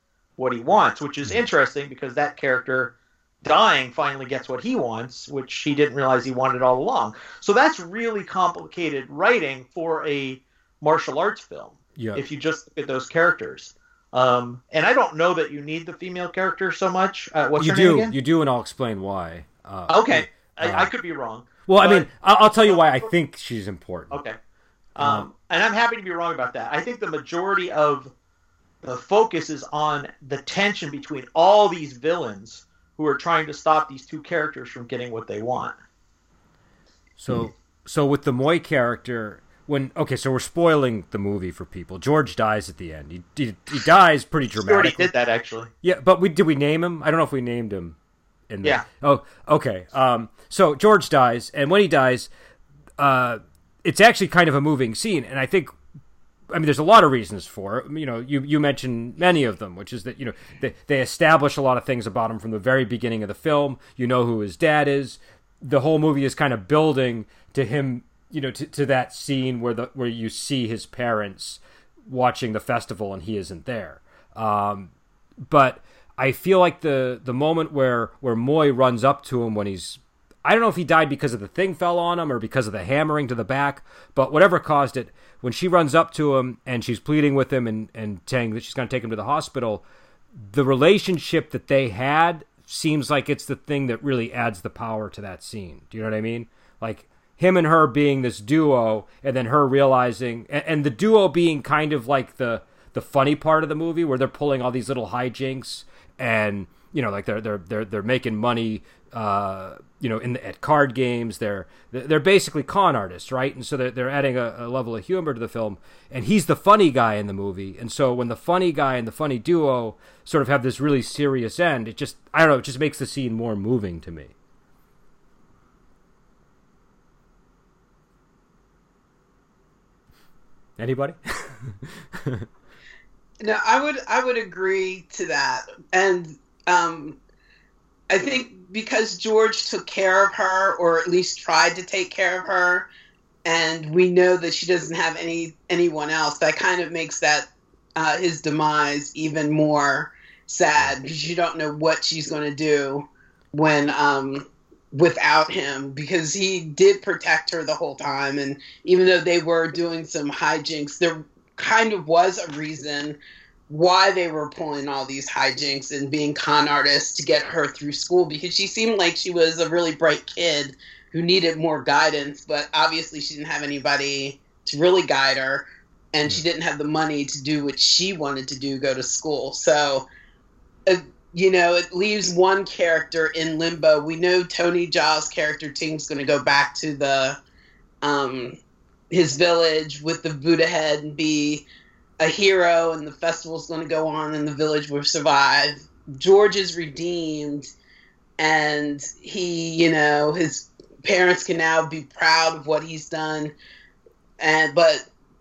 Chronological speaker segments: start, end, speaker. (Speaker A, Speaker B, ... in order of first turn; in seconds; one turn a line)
Speaker A: 0.4-18.1
Speaker B: 12.0-12.2
Speaker B: 17.6-20.9
Speaker A: 19.9-22.1
Speaker B: 21.6-24.2
Speaker A: 22.6-23.1
Speaker A: 24.1-24.4
Speaker A: 25.0-28.1
Speaker B: 25.0-25.3
Speaker A: 28.8-35.8
Speaker B: 37.2-45.1
Speaker A: 44.6-45.7
Speaker B: 45.8-48.0
Speaker B: 48.5-52.3
Speaker B: 53.0-55.7
Speaker B: 56.5-74.9
Speaker B: 75.5-89.8
Speaker B: 90.4-124.3
Speaker B: 130.8-132.5
Speaker C: 133.4-137.2
Speaker C: 138.1-142.9
Speaker C: 143.4-163.2
Speaker C: 163.7-180.1
Speaker C: 180.8-187.4
Speaker C: 188.0-188.6
Speaker C: 189.1-191.6
Speaker C: 192.2-197.7
Speaker C: 198.4-203.5
Speaker C: 204.4-205.1